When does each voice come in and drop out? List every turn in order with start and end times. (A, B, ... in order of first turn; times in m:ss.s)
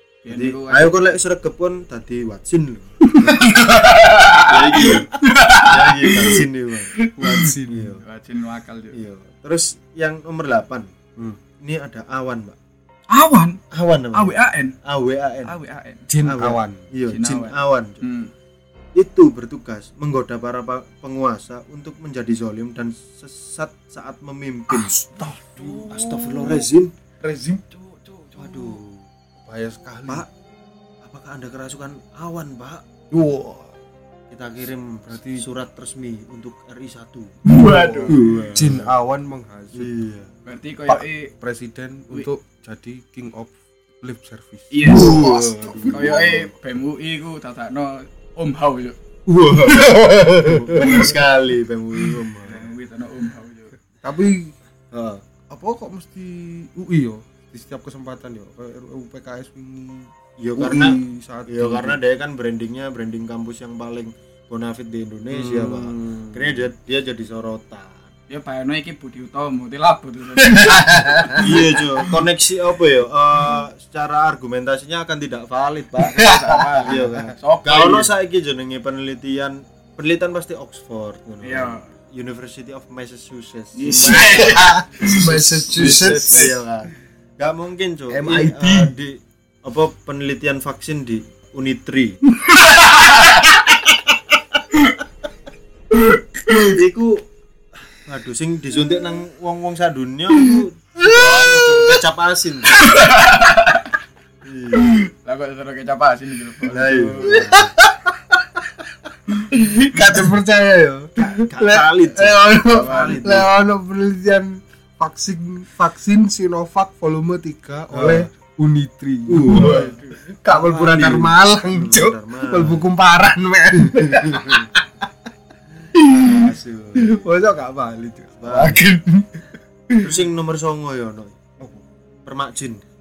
0:00.2-0:01.1 A
0:00.3-0:03.8 B
0:03.1-0:06.4 A
0:04.3-0:07.0 B
0:07.0-0:08.0 C
0:07.2-0:08.9 A
0:07.6-0:08.0 B
0:08.9-0:10.9 B
0:11.6-0:12.6 B
0:13.1-0:13.6 A
0:13.7-0:15.6 B
0:14.1-0:14.8 A
0:15.4-0:16.0 A
0:16.1-0:16.9 C
0:16.2-0:18.0 B
0:17.0-0:18.3 A
0:19.0-0:24.9 B
0:24.7-0:26.7 C
0:25.2-0:25.9 A
0:25.9-0:26.9 B
0:27.2-0:27.6 C
0:27.6-0:28.8 A
0:28.4-0:29.1 B
0:29.4-0:30.2 C
0:31.0-0:32.8 B
0:33.1-0:33.7 C
0:34.3-0:37.3 B
0:35.1-0:35.4 C
0:37.4-0:38.2 A
0:37.7-0:39.9 C
0:38.0-0:38.9 B
0:39.7-0:40.3 B
0:40.5-0:41.3 A
0:40.9-0:46.5 C
0:44.7-0:49.0 A
0:44.8-0:46.4 B
0:49.3-0:52.6 B
0:49.6-0:51.1 C
0:50.8-0:51.1 A
0:52.4-0:53.7 A
0:54.0-0:54.5 C
0:54.9-0:55.2 B
0:55.5-1:02.0 C
1:00.4-1:08.1 B
1:05.3-1:06.7 C
1:08.3-1:11.5 A
1:10.5-1:11.5 C
1:11.3-1:16.3 B
1:16.0-1:18.1 A
1:16.2-1:17.1 C
1:16.8-1:24.6 B
1:21.4-1:21.8 A
1:23.7-1:26.5 A
1:23.9-1:26.5 C
1:25.7-1:32.2 B
1:28.1-1:28.9 C
1:32.8-1:33.5 A
1:36.5-1:37.2 B
1:37.9-1:42.8 B
1:42.8-1:43.9 A
1:44.4-1:45.0 B
1:44.8-1:47.3 A
1:46.7-1:47.7 B
1:47.2-1:48.8 C
1:49.5-2:04.8 C
1:51.2-1:53.5 B
1:52.7-1:53.4 A
1:57.9-1:58.3 B
1:59.3-2:02.9 B
1:59.6-2:00.1 A
2:03.9-2:04.6 B
2:05.9-2:07.5 B
2:05.9-2:06.4 C
2:07.0-2:10.1 C
2:08.4-2:08.9 B
2:10.0-2:12.8 B